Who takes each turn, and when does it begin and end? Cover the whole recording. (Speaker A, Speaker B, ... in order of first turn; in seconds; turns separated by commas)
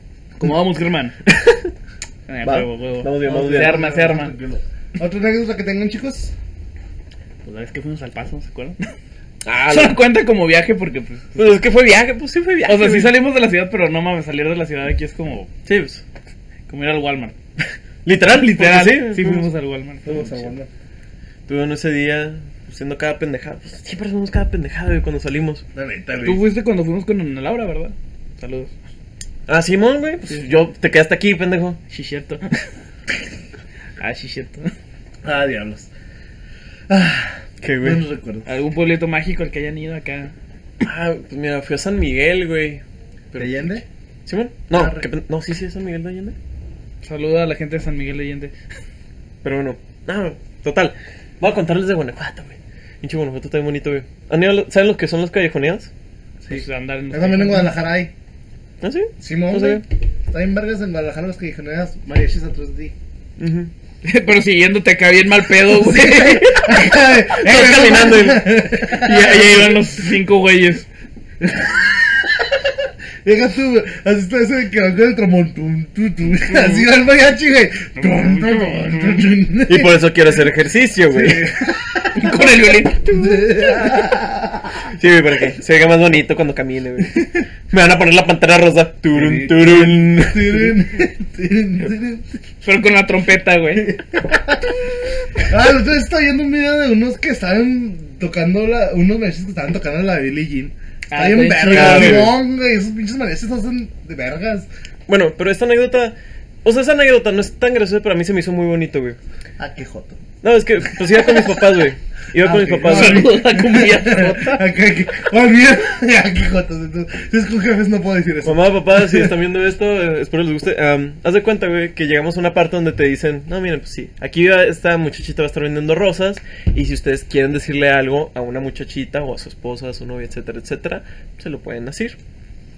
Speaker A: 0.4-1.1, Speaker B: 1.2-1.7, Speaker A: 2.3-4.3, Speaker B: 2.4-3.8, Speaker C: 3.2-6.3, Speaker A: 7.4-8.9, Speaker B: 9.4-10.0, Speaker A: 9.7-11.5, Speaker B: 11.3-13.2, Speaker A: 12.7-15.5, Speaker B: 15.6-16.0, Speaker A: 16.7-17.3, Speaker B: 18.0-19.5, Speaker A: 18.4-20.5, Speaker C: 20.1-20.7, Speaker B: 21.5-25.6, Speaker C: 25.7-26.4, Speaker A: 26.2-28.7, Speaker B: 29.5-31.8, Speaker A: 31.9-32.5, Speaker A: 34.0-34.7, Speaker C: 35.2-35.9, Speaker C: 36.9-38.5, Speaker B: 37.6-38.0, Speaker A: 38.5-40.3, Speaker B: 40.8-46.4, Speaker C: 43.4-43.8, Speaker C: 44.7-45.1, Speaker A: 47.0-48.5, Speaker B: 49.4-55.9, Speaker C: 56.4-58.1, Speaker A: 56.5-57.7, Speaker B: 58.8-59.8, Speaker C: 59.2-62.9, Speaker B: 63.4-63.7, Speaker A: 64.0-66.8, Speaker C: 65.6-69.9, Speaker B: 67.3-68.5, Speaker A: 68.9-70.9, Speaker C: 71.4-80.1, Speaker A: 76.5-76.8, Speaker A: 78.0-79.3, Speaker B: 79.7-81.5, Speaker C: 81.1-82.5, Speaker A: 82.1-83.8, Speaker C: 83.1-84.9, Speaker B: 84.9-90.7, Speaker C: 89.1-92.4, Speaker A: 92.6-94.0, Speaker C: 93.9-94.8, Speaker C: 95.3-104.7, Speaker A: 101.1-102.3, Speaker B: 101.6-102.4, Speaker B: 105.1-109.2, Speaker C: 109.6-110.2, Speaker B: 110.4-113.5, Speaker C: 110.8-111.7, Speaker C: 112.3-119.3, Speaker A: 112.8-114.6, Speaker B: 118.4-132.2